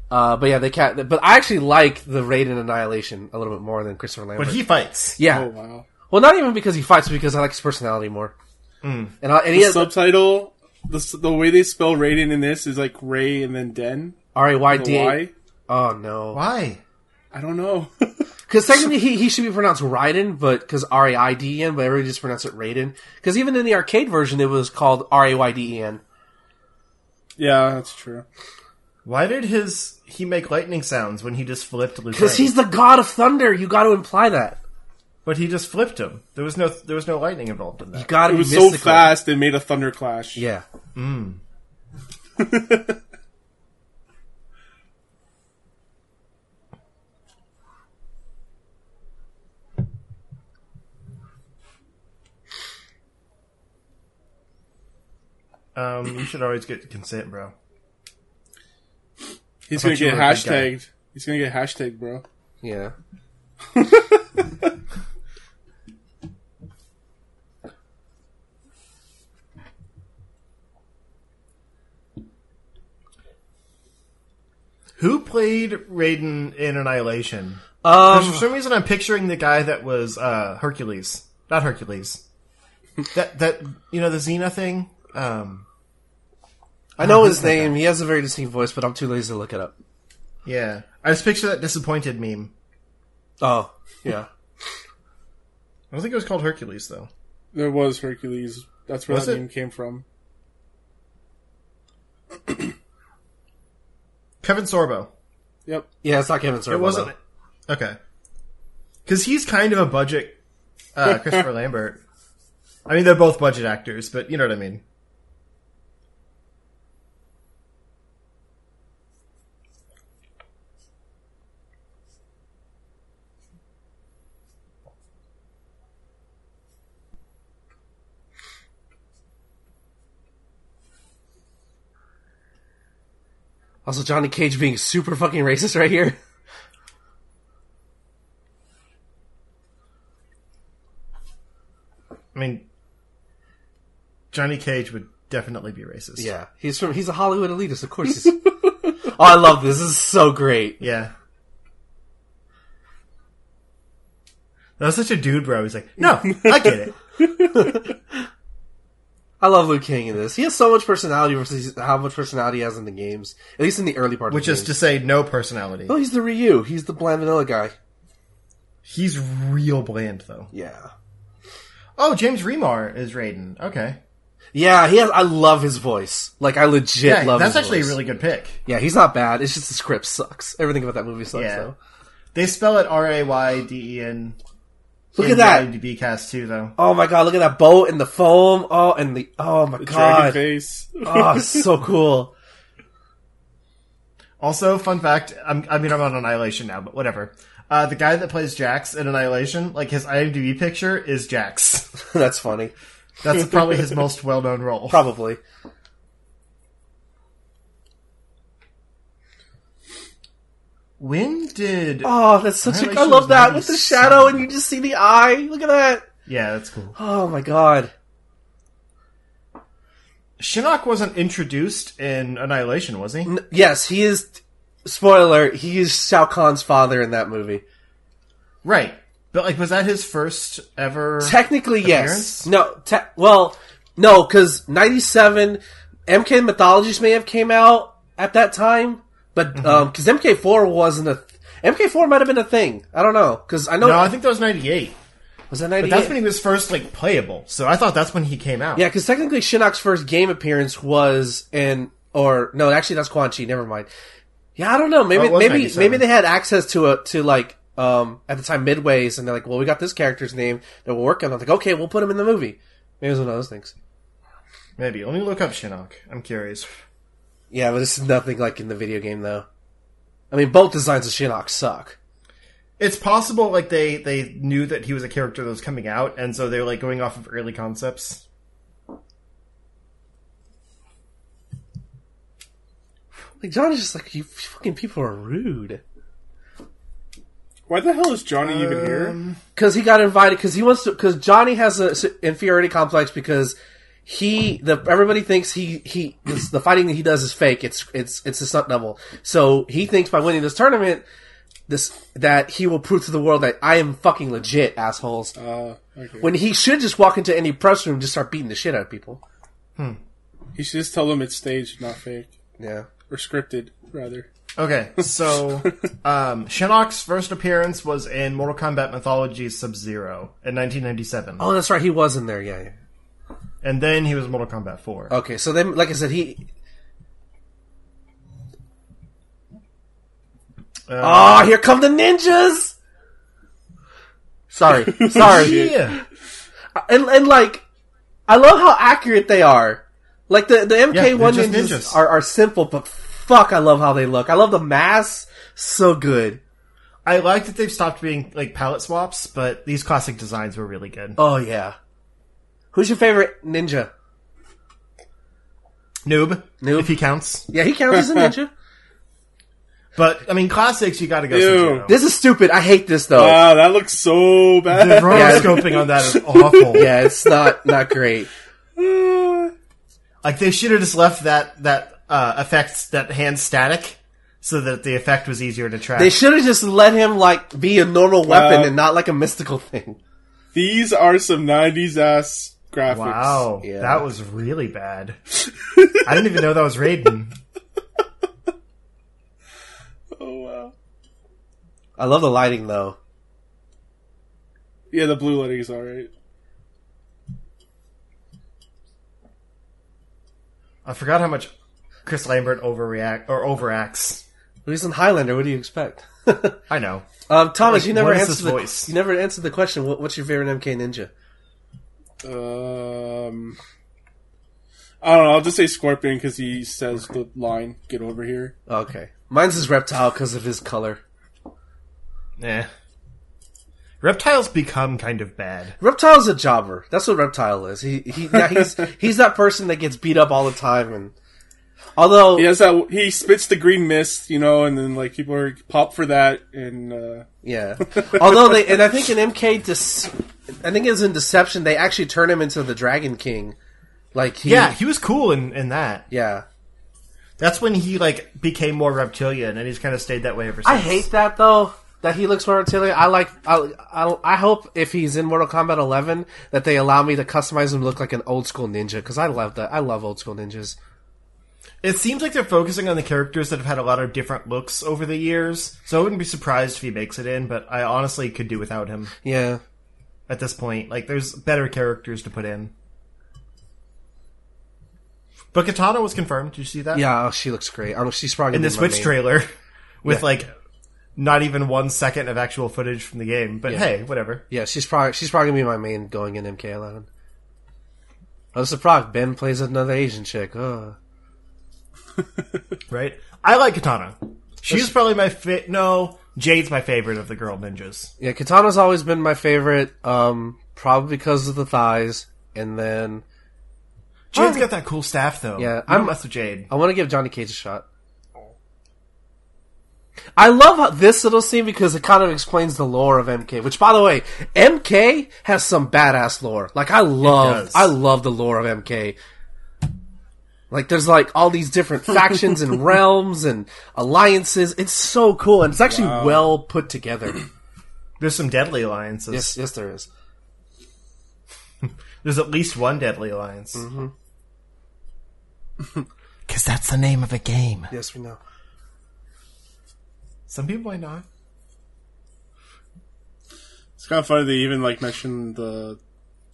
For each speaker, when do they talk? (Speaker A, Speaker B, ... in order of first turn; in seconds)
Speaker A: 0.1-4.6, 5.2-5.5, 6.1-8.3, 9.2-9.9, 14.3-16.4, 18.5-26.0, 32.1-34.6, 38.0-39.2, 40.4-40.6, 62.6-62.9, 77.8-78.5, 87.0-89.7, 93.4-94.3, 106.0-107.1, 133.8-136.2, 146.2-150.8, 157.5-157.9, 159.4-164.7, 165.9-167.7, 170.5-170.9, 174.5-178.0, 178.7-181.8, 185.2-185.7, 186.8-190.4, 191.0-192.3, 202.1-202.7, 204.9-205.4, 212.0-216.1, 217.0-217.9, 223.2-227.6, 231.2-244.1, 245.5-246.2, 248.8-253.9, 254.6-263.7, 267.5-269.5, 270.3-272.0, 283.4-285.8, 289.6-301.1, 301.7-305.4, 306.2-309.2, 312.6-312.9, 321.4-322.7, 325.1-326.4, 331.0-332.7, 334.5-335.8, 336.8-337.6, 338.3-346.4, 351.2-351.8, 352.7-353.9, 356.6-356.9, 357.5-358.5, 361.9-363.5, 365.1-365.7, 366.7-368.3, 376.0-380.0, 383.6-384.1, 392.0-393.0, 404.6-406.6, 407.3-411.1, 418.7-421.0, 425.8-431.1, 432.0-432.5, 437.4-443.6, 444.1-444.8, 446.1-446.4, 450.6-460.8, 469.2-469.6, 476.9-479.2, 484.5-487.1, 488.5-491.0, 498.2-503.2, 504.3-504.7, 505.6-506.1, 506.7-507.9, 510.4-519.2, 520.7-527.4, 529.3-530.1, 533.8-534.1, 537.9-538.4
Speaker B: 4.4-5.2, 8.8-9.1, 16.3-16.8, 29.1-32.5, 35.2-38.2, 41.0-41.4, 55.8-57.5, 59.7-60.7, 75.0-82.2, 83.1-85.7, 87.0-87.7, 90.5-92.5, 95.9-97.1, 99.1-99.4, 104.4-105.1, 106.7-107.2, 107.7-108.0, 109.1-110.4, 111.0-112.0, 112.9-114.8, 142.3-142.6, 144.3-146.3, 150.8-151.1, 154.8-156.9, 164.3-166.0, 168.8-170.5, 172.0-174.0, 177.0-178.6, 181.3-181.7, 182.3-184.4, 185.2-186.8, 194.4-201.9, 203.2-205.0, 211.0-212.1, 212.6-214.4, 216.3-217.0, 220.4-223.3, 228.6-232.5, 239.6-239.9, 243.8-245.0, 245.8-248.9, 255.2-256.1, 264.8-266.7, 272.8-278.2, 288.4-289.4, 314.6-321.5, 323.6-325.1, 330.9-331.5, 335.1-336.0, 340.9-342.0, 347.1-351.2, 356.1-357.5, 359.9-362.0, 364.7-366.9, 370.2-376.2, 382.9-385.2, 386.0-387.4, 400.9-401.5, 402.1-404.2, 406.7-407.1, 407.6-408.9, 422.4-422.7, 424.0-425.8, 444.4-446.1, 447.4-451.1, 461.8-469.1, 470.3-472.7, 475.5-477.1, 478.5-479.5, 480.0-480.5, 481.2-484.4, 492.9-498.1, 504.3-506.7, 517.2-517.9, 528.2-529.6, 531.8-533.8, 536.5-537.9, 540.5-541.2
Speaker C: 5.2-5.9, 9.5-14.2, 14.7-15.3, 17.3-18.3, 27.4-28.2, 38.3-40.4, 42.4-43.0, 59.7-62.2, 63.8-64.2, 97.5-100.0, 189.8-191.7, 287.7-289.2, 305.4-306.3, 310.6-312.3, 313.1-314.3, 334.9-335.8, 357.9-358.3, 361.3-361.9, 363.1-367.8, 368.8-369.5, 378.2-378.8, 380.5-383.5, 385.7-386.0, 390.1-390.7, 394.9-396.1, 412.2-413.6, 415.0-418.5, 428.4-428.7, 432.4-437.3, 437.9-438.8, 525.9-526.5, 544.0-546.0